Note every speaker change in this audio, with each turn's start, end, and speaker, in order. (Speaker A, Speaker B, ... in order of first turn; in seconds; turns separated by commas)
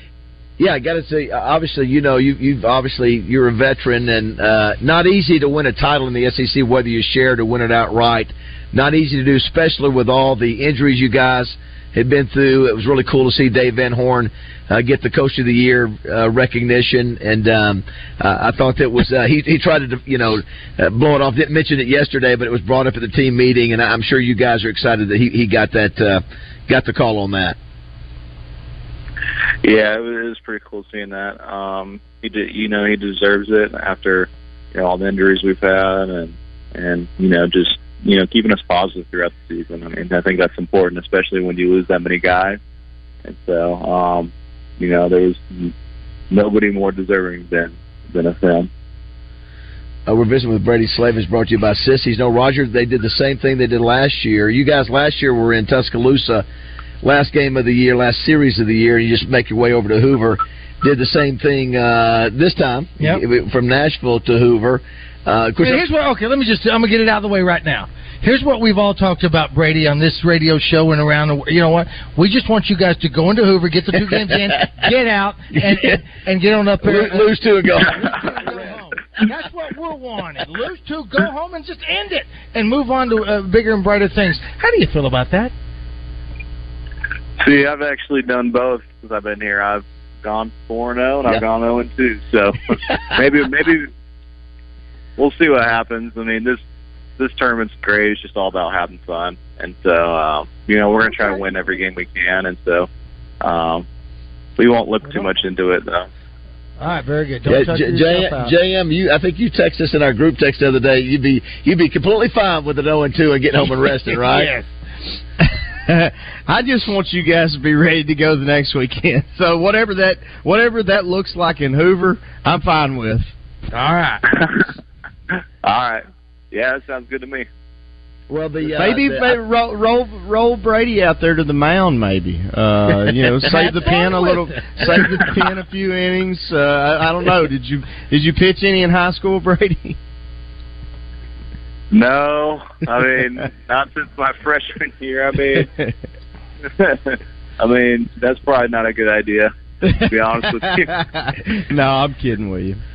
Speaker A: 0.6-27.6, Speaker B: 29.6-42.6, Speaker B: 43.2-45.7, Speaker B: 46.3-48.7, Speaker A: 50.1-56.5, Speaker A: 57.0-65.8, Speaker C: 65.6-85.5, Speaker A: 76.8-78.6, Speaker B: 87.4-93.9, Speaker B: 95.2-96.6, Speaker B: 97.2-102.9, Speaker B: 103.4-103.9, Speaker B: 104.6-106.1, Speaker C: 106.8-108.5, Speaker A: 107.5-114.5, Speaker C: 114.1-114.7, Speaker D: 115.4-123.3, Speaker C: 123.7-124.2, Speaker B: 125.6-127.5, Speaker A: 128.3-129.4, Speaker D: 128.6-140.0, Speaker C: 133.8-134.4, Speaker B: 141.9-145.7, Speaker D: 145.5-145.9, Speaker B: 146.8-149.5, Speaker D: 149.8-152.8, Speaker B: 150.1-150.9